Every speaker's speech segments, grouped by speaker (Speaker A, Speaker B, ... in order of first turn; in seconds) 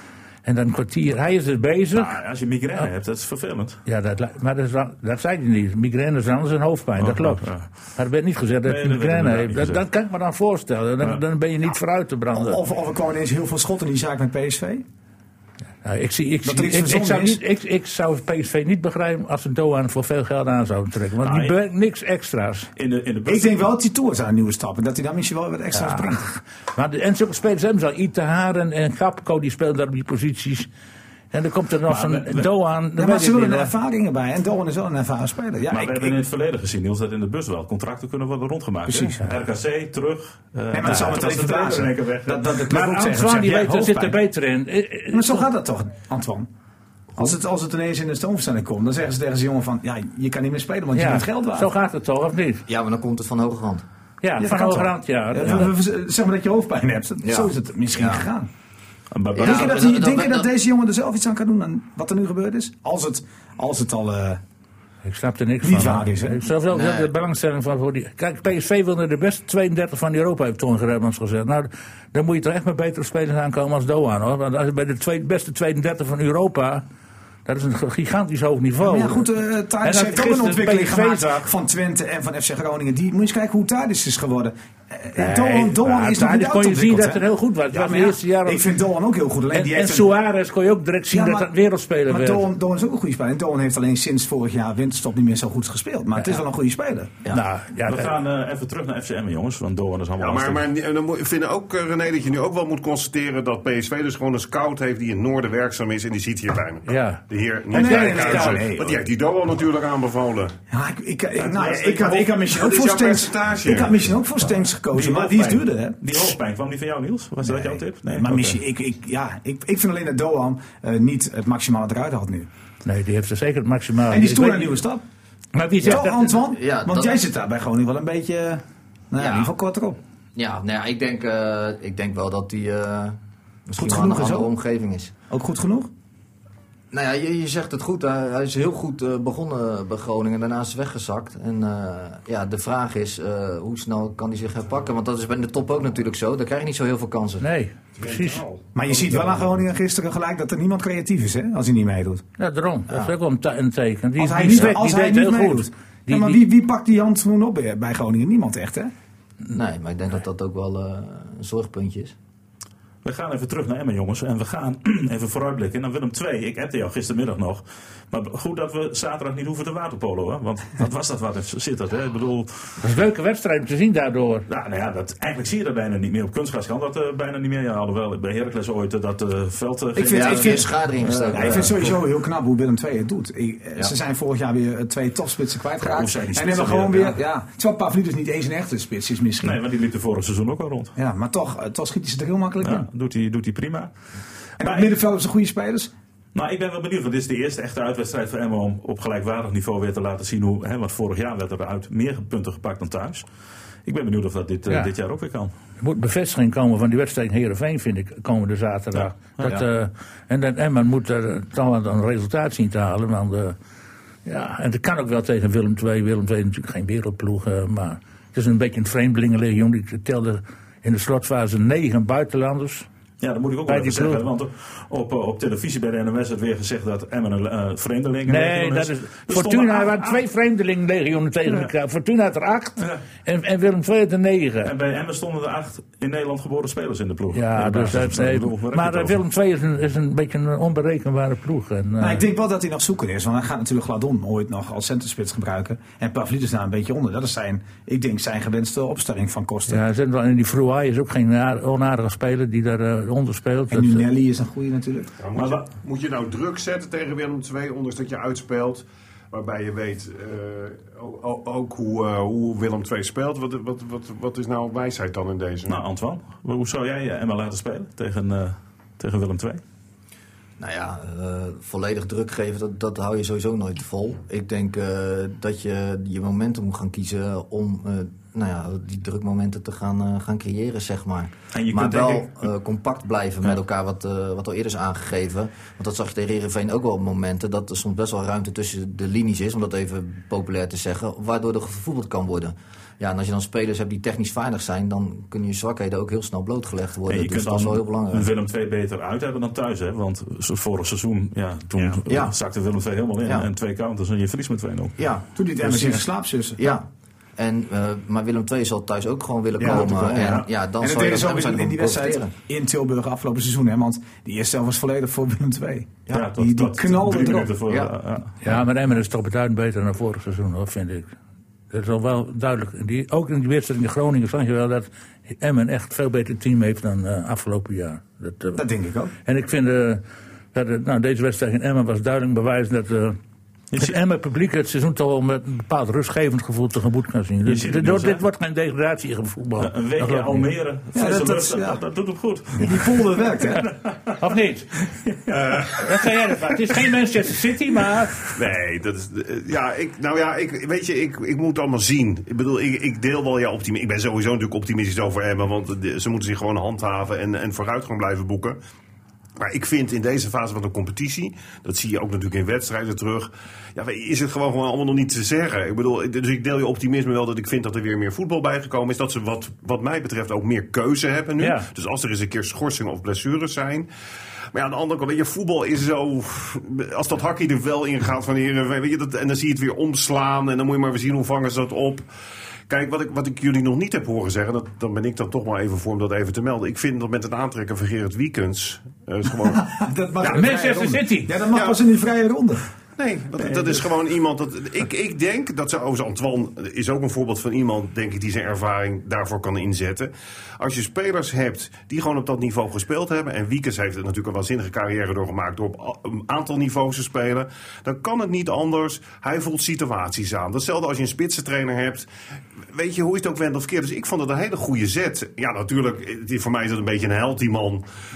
Speaker A: 0.4-2.2, 3.8-12.6, 15.8-22.7, 25.7-30.7, 31.3-33.7, 40.8-41.2, 42.7-45.4, 50.9-52.6, 54.2-55.7, 65.0-76.8, 77.5-79.2, 79.8-81.5, 85.2-88.7, 89.5-92.4, 97.3-98.1, 106.9-108.7, 122.8-124.7, 125.5-126.3, 147.4-148.4, 152.4-156.4, 172.8-174.4, 204.7-204.9, 205.8-213.6, 214.2-222.8, 223.7-224.2, 228.3-234.7, 237.3-242.2, 249.7-254.1, 318.4-321.1, 321.7-328.6, 329.2-330.0, 330.5-333.2, 333.7-340.5, 344.2-344.7, 345.7-348.3, 371.4-371.7, 390.3-391.4
Speaker B: 1.9-3.8, 7.0-8.0, 8.6-9.8, 21.2-21.5, 22.8-23.6, 31.9-32.5, 35.7-42.6, 59.1-59.8, 97.8-100.7, 114.9-118.6, 163.0-172.8, 174.5-181.9, 185.8-187.2, 189.4-190.9, 192.6-193.9, 194.6-194.9, 196.3-203.2, 203.8-205.5, 208.9-209.6, 223.2-230.2, 234.6-239.2, 255.3-255.7, 265.7-269.6, 281.5-282.5, 297.1-304.9, 316.1-318.5, 333.7-334.0, 337.4-338.2, 339.6-344.2, 344.9-345.3, 393.4-393.9
Speaker C: 12.3-14.8, 16.4-17.4, 23.2-26.4, 33.0-36.2, 38.9-39.2, 40.7-44.2, 45.1-46.5, 47.2-51.7, 54.4-58.5, 59.4-64.4, 65.6-66.5, 78.8-90.1, 91.1-91.5, 92.1-97.4, 107.7-109.0, 110.7-116.0, 117.4-122.5, 124.1-125.0, 125.8-130.0, 133.8-134.5, 135.3-135.9, 148.7-152.2, 154.2-158.9, 179.9-180.7, 181.3-189.6, 190.9-192.8, 194.6-195.9, 242.0-249.8, 253.7-255.1, 305.3-306.7, 309.6-317.5, 328.6-329.1, 340.9-341.8, 342.5-343.7, 389.4-392.6
Speaker D: 52.7-53.8, 57.2-58.2, 59.3-60.5, 66.7-67.1, 125.8-127.2, 129.2-129.5, 130.3-135.1, 136.9-147.4, 159.5-162.1, 180.1-181.9, 270.6-298.3, 301.9-302.4, 305.0-306.0, 306.6-306.8, 307.4-312.3, 317.7-317.9
Speaker E: 100.2-110.5, 111.4-114.0, 148.0-149.5, 255.2-265.8, 345.3-345.8, 348.3-358.6, 359.4-373.9, 374.5-382.0, 382.7-389.7, 390.2-390.6, 391.5-391.8, 393.0-412.1, 412.7-417.8